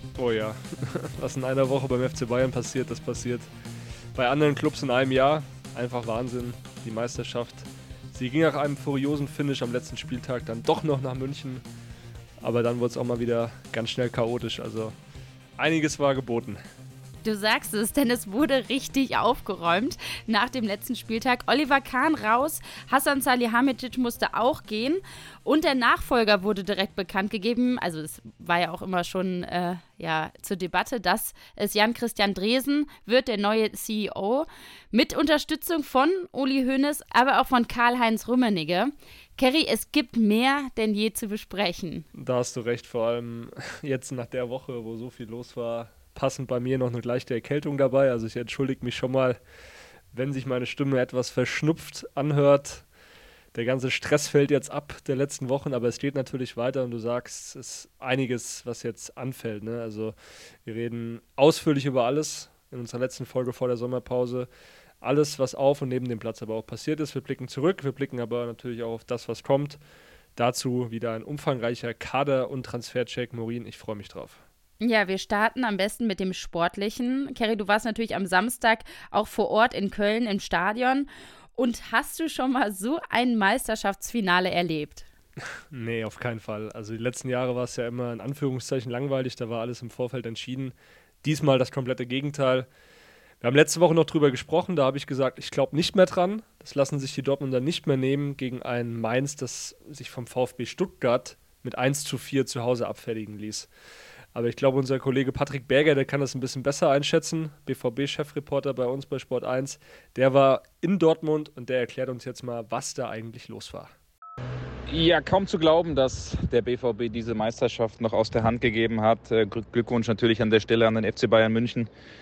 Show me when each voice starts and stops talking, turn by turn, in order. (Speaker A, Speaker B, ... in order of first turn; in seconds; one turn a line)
Speaker A: 0.2-3.5
Speaker A: 4.1-11.6
Speaker A: 12.4-14.9
Speaker A: 15.6-16.6
Speaker B: 17.2-42.0
Speaker A: 42.1-49.4
Speaker A: 50.1-52.8
Speaker A: 53.5-60.1
Speaker A: 60.6-64.5
Speaker A: 65.0-69.8
Speaker A: 70.3-74.4
Speaker B: 74.8-85.0
Speaker A: 85.7-92.7
Speaker A: 93.4-103.7
Speaker A: 104.3-113.9
Speaker C: 114.9-121.9